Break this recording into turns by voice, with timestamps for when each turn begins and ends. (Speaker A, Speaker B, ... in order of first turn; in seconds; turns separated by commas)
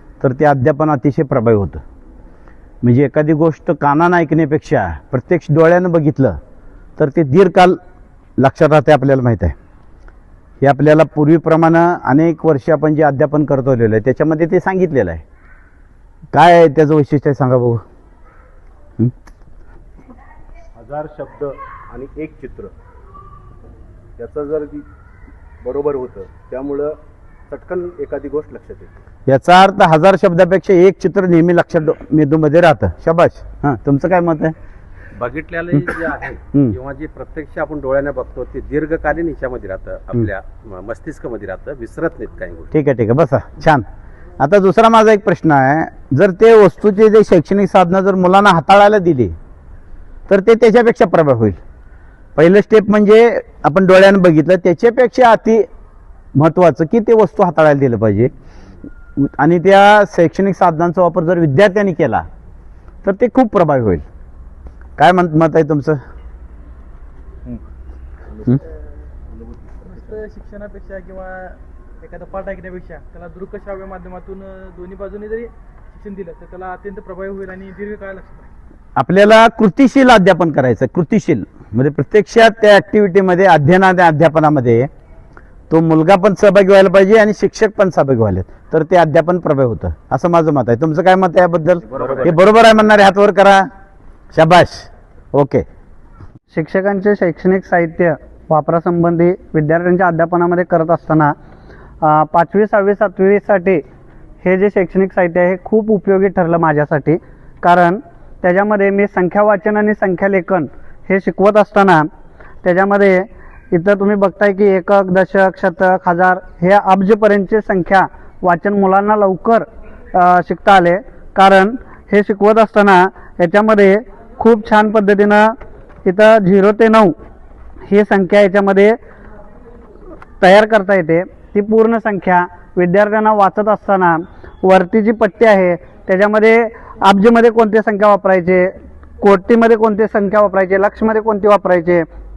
Speaker A: 0.2-1.8, Speaker A: 2.8-6.4, Speaker A: 7.0-7.8, Speaker A: 8.4-9.5, Speaker A: 10.6-15.2, Speaker A: 16.3-17.8, Speaker B: 20.8-22.7, Speaker B: 24.2-24.8, Speaker B: 25.6-27.0, Speaker B: 27.5-28.9, Speaker A: 29.3-34.5, Speaker C: 35.1-42.7, Speaker A: 42.7-43.8, Speaker A: 44.4-49.3, Speaker A: 50.3-51.6, Speaker A: 52.4-55.7, Speaker A: 56.4-58.3, Speaker A: 59.2-62.2, Speaker A: 63.0-64.0, Speaker A: 65.0-66.0, Speaker B: 69.3-70.1, Speaker D: 69.8-78.5, Speaker A: 79.0-84.9, Speaker A: 85.7-93.7, Speaker C: 91.9-92.4, Speaker A: 94.3-95.6, Speaker E: 96.5-101.3, Speaker E: 102.0-103.8, Speaker E: 104.4-112.1, Speaker E: 112.6-125.5, Speaker E: 126.0-127.1, Speaker E: 127.9-129.0, Speaker E: 130.4-142.1